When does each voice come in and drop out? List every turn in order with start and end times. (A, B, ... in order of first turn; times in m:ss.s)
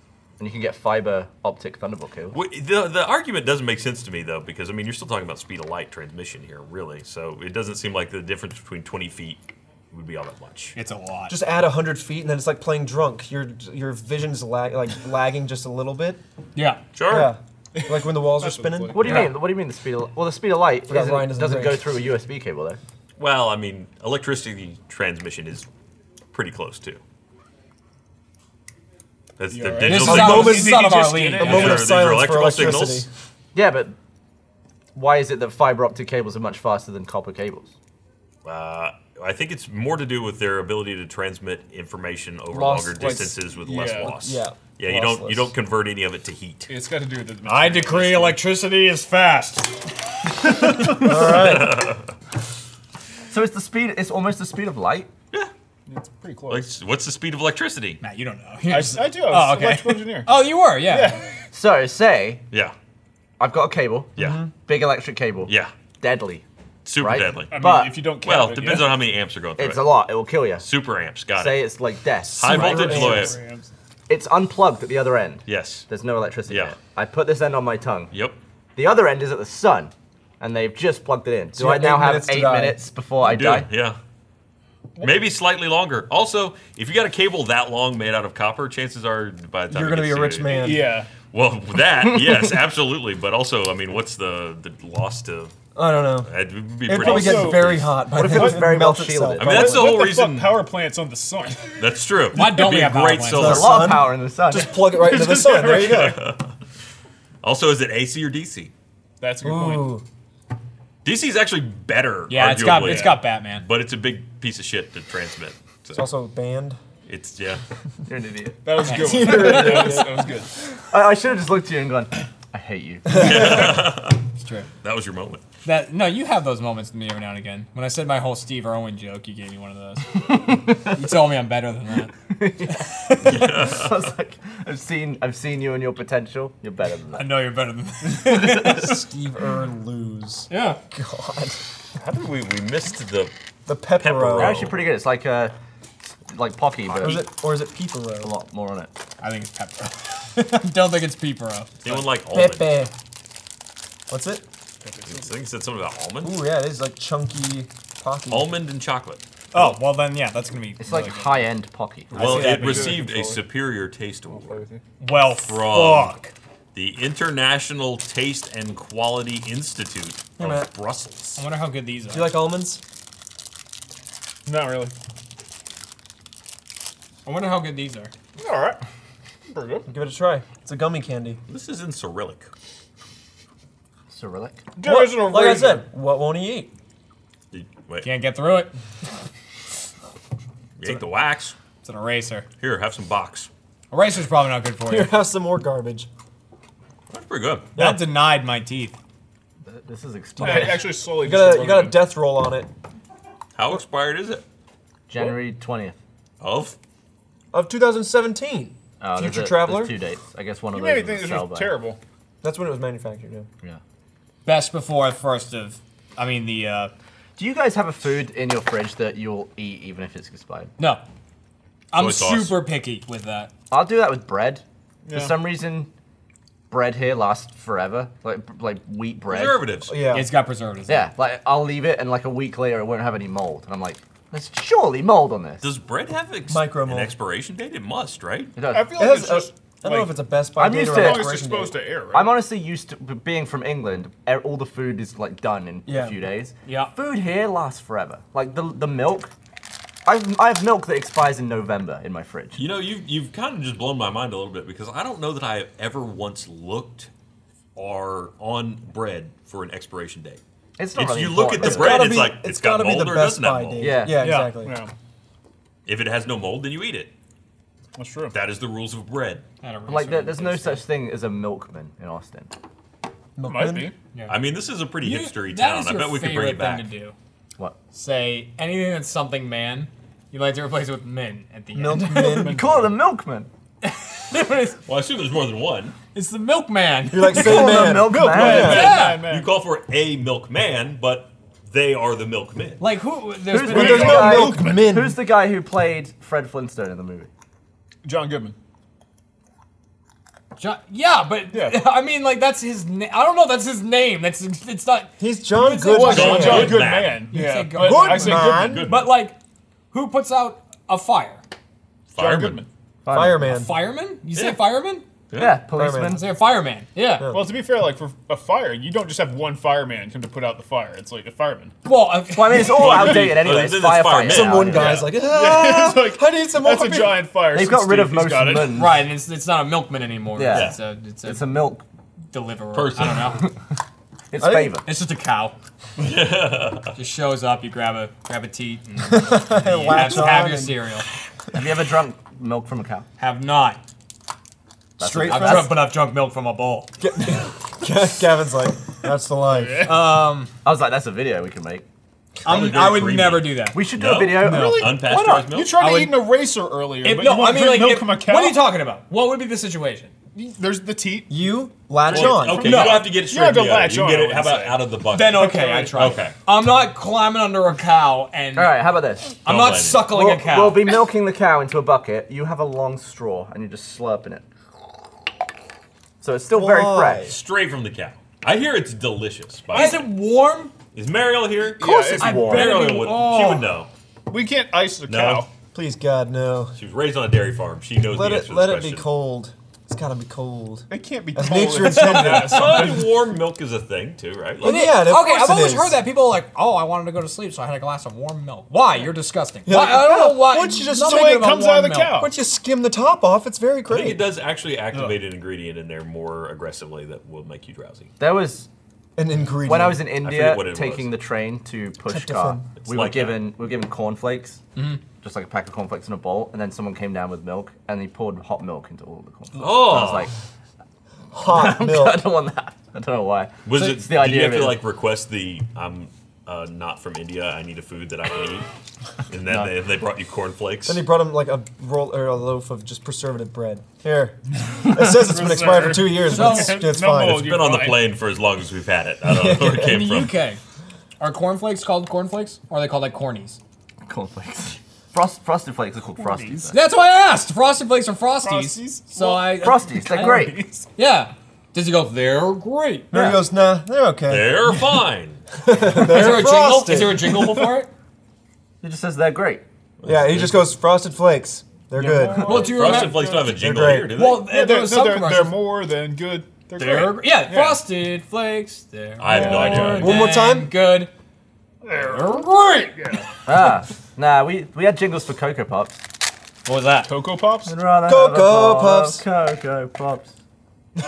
0:00.4-0:02.4 A
0:02.3-0:10.8 B
0:10.7-0:11.3 C
0:11.3-0:16.2 D
0:16.5-0:16.8 C
0:16.9-0:17.3 B
0:17.1-0:19.3 D
0:17.7-0:19.4 E
0:18.9-0:22.8 A
0:20.9-0:21.9 D
0:23.2-0:25.7 B
0:26.3-0:27.0 B
0:29.4-0:30.8 B
0:29.5-0:32.0 E
0:29.8-0:31.6 C
0:30.0-0:30.8 D
0:31.4-0:33.1 D
0:31.4-0:33.1 B
0:33.5-0:34.0 A
0:34.9-0:37.7 A
0:38.4-0:46.7 B
0:42.5-0:43.4 D
0:43.6-0:44.4 E
0:44.0-0:45.5 D
0:46.7-0:48.4 E
0:47.4-0:49.8 C
0:50.8-0:52.0 D
0:50.8-0:52.1 B
0:53.3-0:55.1 A
0:55.9-0:56.7 E
0:56.5-0:58.0 B
0:58.0-1:01.2 C
0:58.7-1:01.2 E
1:01.5-1:02.4 A
1:03.4-1:06.4 A
1:04.2-1:04.4 B
1:04.2-1:04.5 D
1:05.4-1:05.7 B
1:06.8-1:07.5 B
1:07.0-1:08.0 A
1:07.5-1:09.0 E
1:08.2-1:10.0 B
1:09.6-1:10.6 A
1:10.6-1:11.6 B
1:11.4-1:13.1 A
1:12.3-1:13.4 B
1:12.4-1:13.3 D
1:12.4-1:13.7 E
1:14.1-1:18.1 A
1:15.4-1:15.9 B
1:16.5-1:16.8 B
1:18.1-1:18.4 B
1:18.8-1:23.7 A
1:21.6-1:22.8 D
1:23.2-1:24.0 B
1:25.0-1:30.8 B
1:29.7-1:31.0 D
1:30.5-1:31.1 E
1:31.3-1:35.5 B
1:32.0-1:32.5 A
1:35.7-1:36.3 D
1:36.2-1:38.0 B
1:36.8-1:39.9 D
1:36.9-1:38.8 E
1:38.1-1:39.8 A
1:39.4-1:41.8 E
1:39.4-1:40.6 B
1:41.8-1:44.0 B
1:42.3-1:43.7 C
1:43.3-1:46.2 D
1:43.4-1:44.8 A
1:44.7-1:46.1 E
1:45.8-1:46.4 B
1:47.4-1:48.7 B
1:49.2-1:50.0 E
1:49.4-1:50.0 D
1:51.0-1:56.1 B
1:52.3-1:53.6 C
1:52.7-1:53.2 E
1:56.0-1:56.8 D
1:57.0-1:57.6 B
1:58.1-2:00.0 A
1:58.6-2:00.5 E
1:58.8-2:00.1 C
2:00.9-2:03.6 A
2:03.1-2:04.2 B
2:04.4-2:04.7 C
2:04.8-2:05.4 B
2:05.6-2:12.1 C
2:12.3-2:17.4 A
2:13.2-2:14.0 B
2:17.2-2:18.9 C
2:18.2-2:18.8 A
2:18.3-2:21.6 D
2:20.5-2:20.8 C
2:22.0-2:23.3 B
2:23.7-2:24.8 D
2:23.9-2:24.8 B
2:24.4-2:25.5 A
2:26.3-2:27.3 A
2:26.8-2:27.2 B
2:27.0-2:28.3 D
2:28.2-2:28.9 A
2:29.2-2:31.7 C
2:31.8-2:32.8 B
2:32.3-2:32.9 D
2:34.1-2:34.4 D
2:34.8-2:35.3 E
2:35.1-2:36.5 B
2:36.2-2:38.5 D
2:38.3-2:39.6 B
2:39.5-2:41.4 C
2:40.8-2:42.3 A
2:42.1-2:44.6 B
2:42.1-2:43.5 E
2:42.2-2:43.0 C
2:44.3-2:44.8 E
2:45.0-2:46.3 C
2:45.4-2:46.2 B
2:46.7-2:51.4 B
2:50.4-2:50.7 D
2:51.4-2:52.4 C
2:52.1-2:52.8 D
2:54.4-2:54.9 E
2:57.2-2:58.1 C
2:58.4-2:58.8 E
2:59.5-2:59.9 E
2:59.9-3:01.4 D
3:01.5-3:02.5 B
3:04.1-3:04.7 A
3:04.8-3:05.8 E
3:04.8-3:06.7 D
3:07.5-3:08.1 B
3:08.0-3:08.7 C
3:10.8-3:11.5 B
3:11.8-3:12.4 C
3:12.6-3:13.5 B
3:13.9-3:15.1 C
3:14.8-3:16.1 D
3:17.1-3:17.7 B
3:17.8-3:18.1 D
3:17.8-3:19.0 C
3:19.6-3:21.0 A
3:20.4-3:22.0 E
3:21.2-3:22.7 D
3:23.6-3:24.4 B
3:25.1-3:26.0 A
3:26.4-3:26.8 B
3:27.5-3:29.9 D
3:29.0-3:31.8 A
3:30.7-3:32.0 E
3:32.4-3:33.5 D
3:34.4-3:36.9 C
3:37.4-3:40.7 A
3:41.9-3:43.5 C
3:41.9-3:42.6 B
3:43.7-3:45.9 A
3:45.0-3:45.3 E
3:46.7-3:49.6 A
3:49.3-3:49.9 B
3:49.8-3:50.3 D
3:50.1-3:51.1 C
3:50.9-3:55.7 A
3:55.6-3:58.6 B
3:56.5-3:57.1 D
3:58.6-3:59.0 A
3:58.7-4:00.1 E
3:58.9-4:01.8 D
4:00.6-4:01.4 A
4:00.7-4:02.4 E
4:02.1-4:09.3 A
4:05.8-4:06.2 D
4:06.6-4:06.9 C
4:10.0-4:12.6 A
4:12.6-4:17.1 B
4:17.8-4:20.4 B
4:20.8-4:22.2 A
4:20.9-4:24.1 B
4:21.6-4:24.8 D
4:23.8-4:24.2 A
4:24.1-4:24.5 C
4:24.6-4:24.9 E
4:25.8-4:27.1 B
4:28.0-4:28.4 E
4:28.3-4:29.4 B
4:29.6-4:30.8 C
4:29.9-4:32.5 A
4:33.4-4:33.9 D
4:33.4-4:33.9 E
4:34.1-4:34.4 C
4:34.3-4:36.9 B
4:35.0-4:37.1 C
4:37.9-4:42.5 C
4:41.7-4:42.6 D
4:42.2-4:43.5 A
4:42.2-4:42.9 E
4:43.8-4:44.8 C
4:44.8-4:46.0 B
4:46.1-4:47.9 C
4:47.1-4:48.8 D
4:47.3-4:48.9 A
4:47.6-4:49.5 E
4:48.3-4:52.8 B
4:48.5-4:49.3 C
4:52.8-4:54.4 C
4:53.5-4:57.3 A
4:53.6-4:54.9 E
4:53.7-4:55.2 D
4:58.0-4:58.5 E
5:00.6-5:09.4 C
5:01.5-5:01.8 E
5:05.2-5:06.8 D
5:05.9-5:08.8 E
5:06.0-5:07.3 B
5:07.8-5:08.8 D
5:08.5-5:09.2 B
5:09.9-5:11.4 C
5:12.1-5:12.6 B
5:12.2-5:12.7 E
5:13.0-5:13.5 A
5:13.1-5:13.8 D
5:13.4-5:15.0 C
5:14.3-5:14.6 B
5:15.3-5:15.6 B
5:15.4-5:16.2 A
5:15.7-5:16.2 D
5:16.1-5:17.3 C
5:17.2-5:17.5 D
5:17.2-5:21.7 E
5:21.8-5:23.2 C
5:22.3-5:25.0 A
5:22.5-5:25.1 B
5:24.3-5:27.3 D
5:25.0-5:28.8 E
5:27.5-5:29.1 A
5:28.7-5:31.6 C
5:30.3-5:31.8 A
5:30.5-5:30.8 B
5:32.3-5:33.5 C
5:32.7-5:33.4 B
5:34.3-5:34.9 A
5:34.4-5:34.8 D
5:34.8-5:35.5 C
5:36.0-5:37.0 B
5:36.9-5:41.0 C
5:39.1-5:40.8 D
5:41.5-5:43.1 A
5:43.2-5:43.8 C
5:45.0-5:45.8 A
5:45.0-5:45.7 D
5:45.1-5:46.9 C
5:47.0-5:49.9 D
5:49.5-5:50.1 E
5:49.8-5:50.5 C
5:50.6-5:51.8 A
5:52.4-5:53.9 C
5:52.4-5:55.8 B
5:53.7-5:54.9 A
5:54.4-5:56.3 C
5:54.5-5:58.7 E
5:57.0-6:00.1 C
6:00.3-6:01.4 E
6:01.3-6:02.9 D
6:02.1-6:06.3 B
6:02.1-6:06.2 E
6:02.4-6:03.1 C
6:05.1-6:08.8 C
6:08.6-6:09.3 A
6:09.4-6:10.9 C
6:09.4-6:10.0 B
6:10.0-6:14.4 A
6:16.2-6:17.3 A
6:16.5-6:17.3 D
6:17.3-6:20.1 B
6:19.7-6:20.0 E
6:19.7-6:20.7 C
6:20.9-6:23.9 B
6:21.7-6:22.8 E
6:21.8-6:22.7 A
6:22.1-6:23.7 C
6:24.3-6:25.5 E
6:25.1-6:25.4 B
6:25.7-6:26.8 D
6:26.8-6:29.0 B
6:28.0-6:32.9 D
6:30.9-6:33.2 E
6:31.8-6:32.4 C
6:32.0-6:34.8 B
6:34.6-6:36.0 D
6:34.6-6:42.2 C
6:39.6-6:41.5 D
6:40.9-6:42.3 E
6:42.1-6:44.3 D
6:43.9-6:48.1 B
6:44.9-6:45.2 E
6:48.2-6:48.7 A
6:49.2-6:50.2 D
6:49.6-6:54.6 A
6:50.2-6:51.1 B
6:52.0-6:52.7 D
6:52.8-6:53.5 B
6:55.2-7:00.3 A
6:59.6-7:00.3 B
7:01.3-7:02.2 D
7:01.4-7:04.8 A
7:03.6-7:08.7 B
7:09.3-7:11.0 B
7:09.5-7:09.7 A
7:10.8-7:17.6 D
7:14.7-7:18.1 E
7:16.3-7:16.8 C
7:17.2-7:20.4 B
7:19.2-7:20.1 D
7:19.8-7:20.6 C
7:21.2-7:23.6 C
7:24.0-7:26.8 A
7:26.2-7:26.7 E
7:26.7-7:33.4 C
7:28.4-7:30.8 E
7:29.6-7:30.7 A
7:33.1-7:34.7 D
7:34.3-7:35.4 B
7:35.6-7:37.3 D
7:35.9-7:37.9 C
7:38.8-7:39.6 A
7:40.0-7:40.6 B
7:40.0-7:42.6 D
7:41.9-7:43.6 E
7:42.3-7:43.5 C
7:42.4-7:44.5 B
7:43.5-7:44.1 D
7:44.1-7:45.6 C
7:44.4-7:47.8 E
7:46.7-7:51.1 C
7:49.2-7:50.2 B
7:49.3-7:50.2 E
7:50.0-7:50.7 D
7:51.8-7:53.6 E
7:51.9-7:53.0 C
7:53.4-7:56.0 A
7:56.6-7:57.1 C
7:57.0-7:57.7 E
7:57.6-8:00.3 A
7:58.0-7:59.2 D